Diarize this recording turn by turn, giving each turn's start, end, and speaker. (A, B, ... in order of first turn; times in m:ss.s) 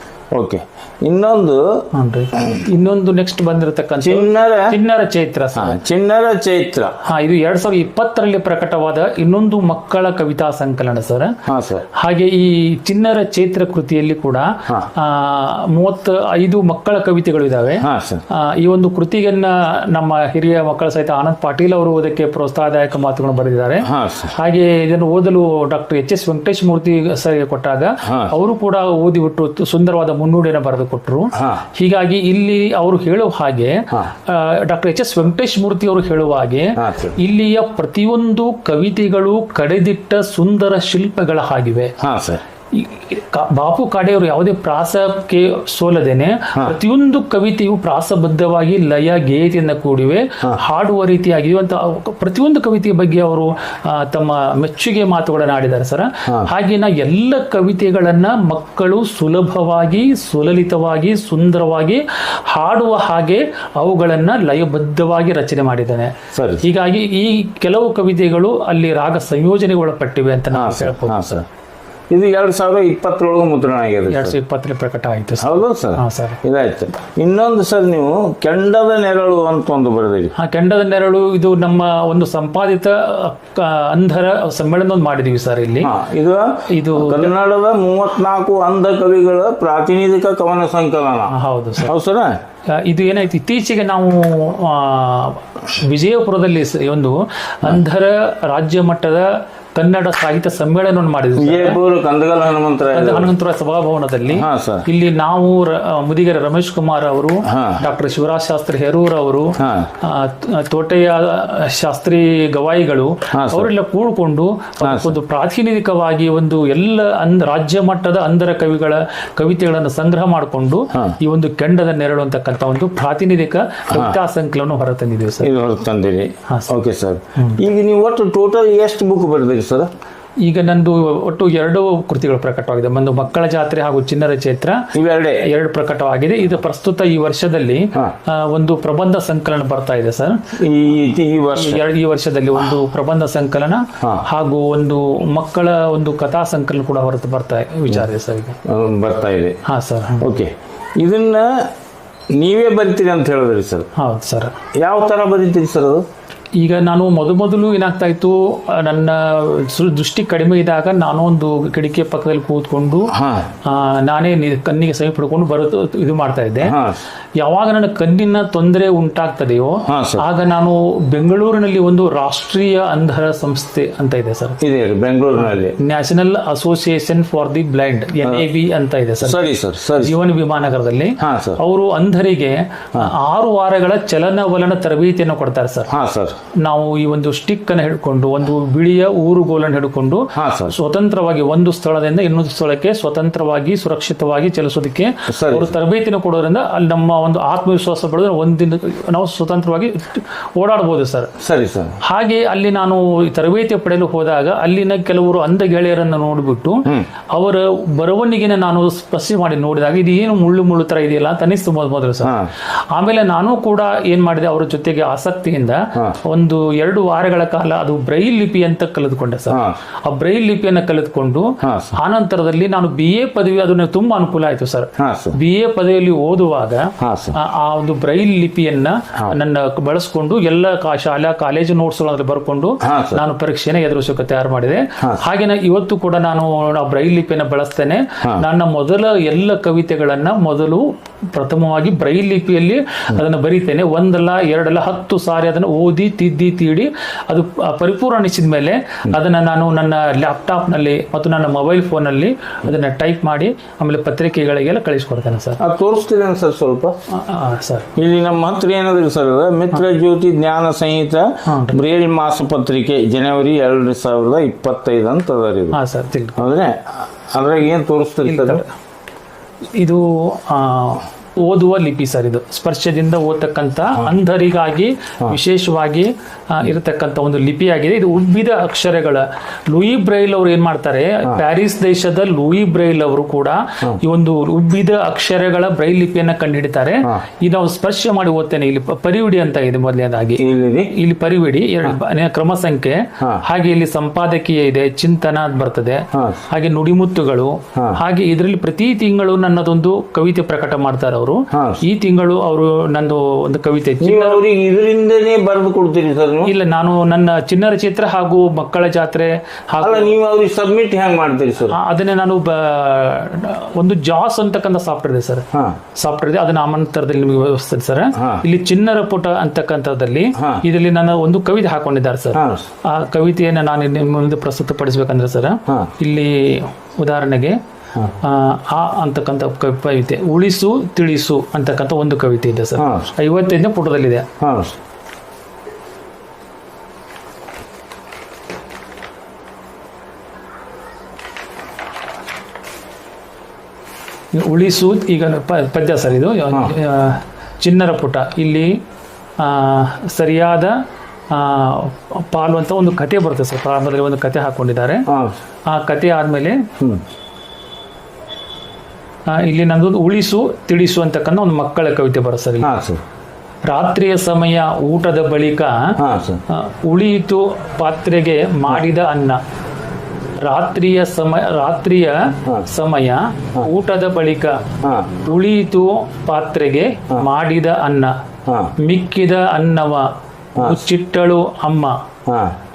0:00.3-0:01.9 A
0:01.9-0:05.8 B
0:04.0-0:04.8 A
0:05.5-0:07.0 A
0:07.0-0:11.4 B
0:11.5-0:11.9 A
0:12.0-0:41.9 B
0:17.8-0:18.2 A
0:23.8-0:24.3 A
0:28.0-0:28.3 A
0:31.4-0:31.6 A
0:36.8-0:37.2 A
0:42.0-0:42.4 A
0:42.7-1:11.4 B
1:06.3-1:06.7 A
1:10.5-1:11.5 A
1:12.1-1:14.4 A
1:14.1-1:16.4 B
1:15.4-1:20.3 A
1:20.4-1:25.9 B
1:25.8-1:32.4 A
1:26.7-1:27.3 B
1:31.3-1:31.9 B
1:32.7-1:41.8 B
1:41.4-1:43.3 A
1:42.9-2:05.5 B
1:44.3-1:44.9 A
1:47.5-1:47.8 A
1:49.6-1:49.9 A
1:53.3-1:53.7 A
1:54.8-1:55.2 A
2:03.9-2:04.2 A
2:05.4-2:09.9 A
2:06.5-2:06.7 B
2:07.4-2:07.6 B
2:10.4-2:14.9 B
2:14.9-2:15.4 A
2:15.4-2:20.4 B
2:20.6-2:21.8 A
2:21.6-2:28.6 B
2:24.0-2:24.2 A
2:28.6-2:29.6 A
2:29.6-2:30.2 B
2:30.2-2:31.7 A
2:32.3-2:33.9 A
2:34.0-2:34.5 B
2:34.8-2:36.0 A
2:36.6-2:43.1 B
2:43.1-2:43.5 A
2:43.6-2:46.8 B
2:46.6-2:47.0 A
2:47.4-2:54.6 B
2:49.9-2:50.2 A
2:54.6-2:55.8 A
2:55.4-3:05.9 B
2:59.2-3:00.2 A
3:01.2-3:01.6 A
3:05.9-3:06.4 A
3:06.6-3:21.3 B
3:10.4-3:10.8 A
3:15.3-3:15.8 A
3:21.4-3:22.0 A
3:22.0-3:32.3 B
3:32.2-3:32.5 A
3:32.9-4:15.6 B
3:39.5-3:39.8 A
3:41.6-3:42.0 A
3:45.0-3:45.4 A
3:47.0-3:47.4 A
3:52.8-3:53.2 A
4:15.6-4:17.0 A
4:17.1-4:17.9 B
4:18.0-4:25.8 A
4:21.5-4:21.8 B
4:25.7-4:26.4 B
4:26.4-4:28.6 A
4:28.2-4:28.7 B
4:29.8-5:04.4 B
4:50.4-4:50.9 A
4:56.1-4:56.4 A
5:01.5-5:01.8 A
5:04.0-5:06.5 A
5:06.5-5:10.1 B
5:09.8-5:11.8 A
5:11.7-5:27.6 B
5:15.5-5:15.8 A
5:18.2-5:18.4 A
5:20.4-5:20.6 A
5:22.3-5:22.7 A
5:28.2-5:34.3 B
5:32.8-5:33.1 A
5:34.4-5:34.8 A
5:44.3-5:48.8 B
5:49.4-5:50.8 B
5:51.3-5:55.0 B
5:55.1-5:55.4 A
5:55.7-5:56.6 B
5:59.3-6:02.7 B
6:02.6-6:03.0 A
6:03.7-6:06.0 B
6:06.0-6:06.4 A
6:06.5-6:09.4 B
6:10.4-6:14.6 B
6:14.8-6:15.1 A
6:15.2-6:18.2 B
6:18.4-6:18.7 A
6:18.8-6:22.0 B
6:22.3-6:22.6 A